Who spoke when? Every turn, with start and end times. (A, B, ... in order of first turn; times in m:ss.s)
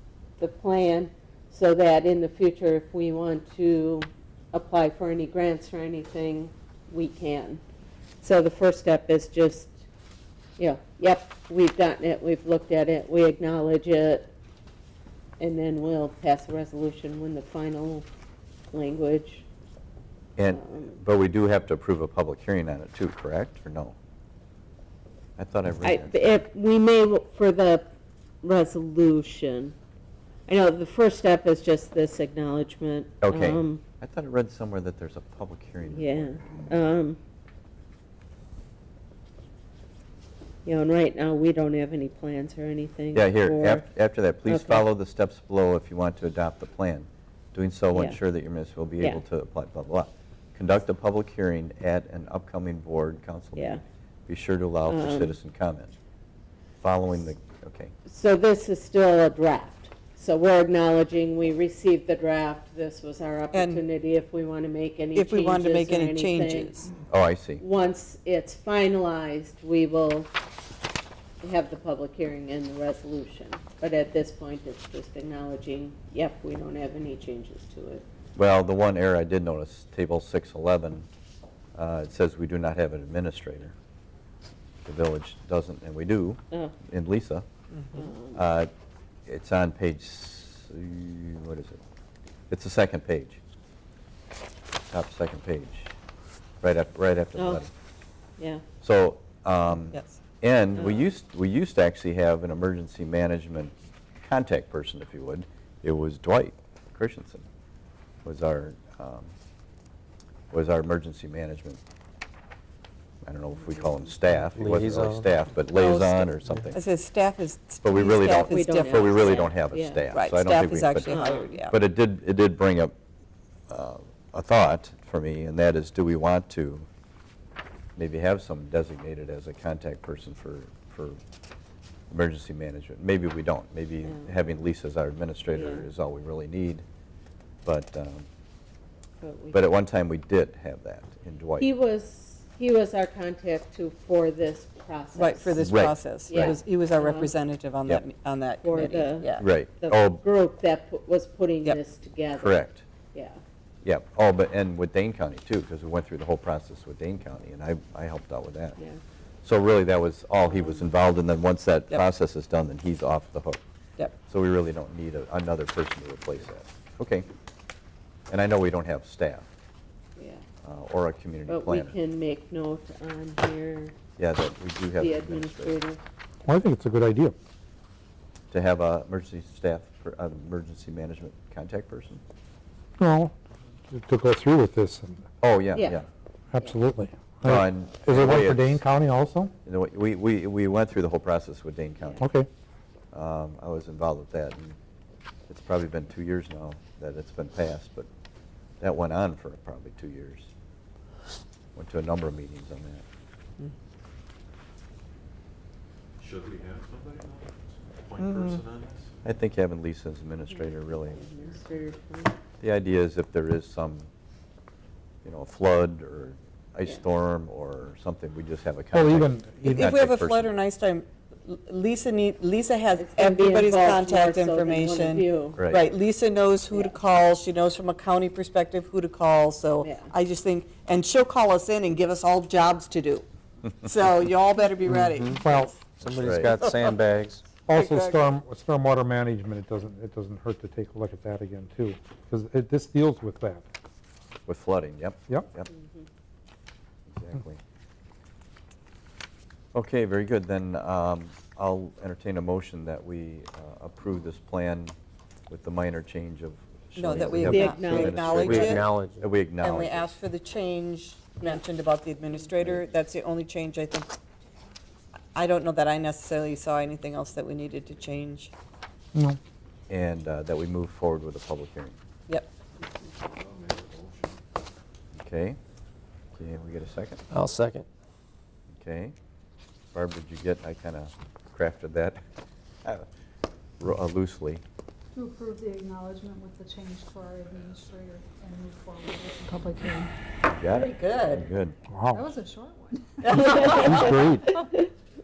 0:00.4-0:07.6 A
0:08.2-0:09.8 A
0:10.6-0:14.3 A
0:15.4-0:18.1 A
0:18.7-0:19.4 A
0:20.4-0:24.0 B
0:20.5-0:21.0 A
0:25.4-0:26.2 B
0:25.8-0:27.9 A
0:28.4-0:29.8 A
0:30.5-0:33.8 A
0:33.2-0:36.6 B
0:35.9-0:37.2 A
0:40.6-0:43.9 A
0:43.1-0:56.0 B
0:44.4-0:44.9 A
0:47.9-0:48.2 A
0:53.6-0:53.8 A
0:54.9-0:55.4 A
0:56.8-0:57.9 B
0:58.1-1:06.9 A
1:03.5-1:03.8 C
1:05.2-1:06.9 C
1:07.1-1:07.6 B
1:07.6-1:10.3 A
1:11.4-1:18.0 A
1:18.4-1:21.1 B
1:21.8-1:23.7 B
1:24.9-1:27.4 B
1:27.8-1:28.1 C
1:27.9-1:28.4 A
1:28.3-1:28.7 B
1:29.3-1:31.8 B
1:32.5-1:33.4 B
1:34.9-1:35.9 B
1:36.6-1:37.7 B
1:37.4-1:37.7 A
1:38.4-1:38.6 A
1:38.8-1:47.4 B
1:40.8-1:41.1 A
1:48.2-1:49.3 B
1:50.5-1:51.8 B
1:53.3-1:56.8 B
1:54.6-1:55.3 D
1:55.7-1:59.5 C
1:57.8-2:02.9 B
1:58.4-2:00.0 A
2:00.1-2:01.8 C
2:01.1-2:01.5 A
2:03.7-2:06.9 B
2:08.0-2:11.2 B
2:12.1-2:16.8 B
2:14.0-2:14.3 A
2:15.5-2:15.9 A
2:17.6-2:18.3 B
2:19.2-2:19.6 A
2:19.5-2:21.7 B
2:21.6-2:25.7 A
2:25.2-2:29.5 C
2:25.6-2:26.6 B
2:26.3-2:27.3 A
2:28.6-2:32.6 A
2:29.4-2:30.2 B
2:32.4-2:32.8 B
2:33.1-2:33.4 A
2:33.8-2:38.8 B
2:39.4-2:43.6 B
2:40.4-2:40.9 A
2:44.3-2:47.3 B
2:48.3-2:49.5 B
2:50.2-2:50.4 A
2:50.6-2:52.0 B
2:51.5-2:54.0 A
2:54.2-2:55.8 B
2:55.0-2:56.0 A
2:56.5-2:57.4 E
2:58.5-3:02.2 B
3:03.0-3:03.3 E
3:03.9-3:05.2 E
3:05.4-3:06.1 B
3:05.7-3:06.0 A
3:06.5-3:09.5 E
3:07.4-3:08.8 B
3:09.7-3:12.3 B
3:12.2-3:12.5 E
3:13.1-3:14.8 B
3:15.5-3:18.1 B
3:18.8-3:20.5 B
3:21.8-3:23.0 B
3:26.2-3:29.2 F
3:28.2-3:28.6 C
3:29.2-3:31.2 B
3:30.5-3:32.4 A
3:32.6-3:34.1 B
3:35.2-3:40.5 B
3:38.9-3:39.9 E
3:39.7-3:57.0 C
3:43.0-3:45.6 A
3:45.6-3:45.9 B
3:49.8-3:50.1 A
3:55.1-3:55.4 D
3:55.4-3:55.9 E
3:56.0-3:57.4 D
3:56.1-3:56.5 B
3:57.6-4:03.6 E
3:57.7-3:58.4 C
4:04.5-4:05.7 B
4:05.7-4:06.1 A
4:07.1-4:07.6 B
4:09.7-4:15.0 B
4:15.5-4:20.1 B
4:17.0-4:18.9 C
4:17.4-4:18.3 A
4:18.4-4:19.2 D
4:19.6-4:24.1 C
4:25.4-4:28.5 C
4:29.9-4:32.0 B
4:33.2-4:34.4 F
4:35.2-4:35.6 B
4:36.4-4:37.2 B
4:37.3-4:37.9 D
4:38.7-4:39.1 B
4:39.9-4:42.2 B
4:43.8-4:44.6 B
4:45.1-4:50.1 G
4:50.4-4:51.8 B
4:50.7-4:51.5 C
4:51.9-4:52.2 E
4:52.1-4:54.1 G
4:53.2-4:54.1 C
4:53.8-4:54.5 E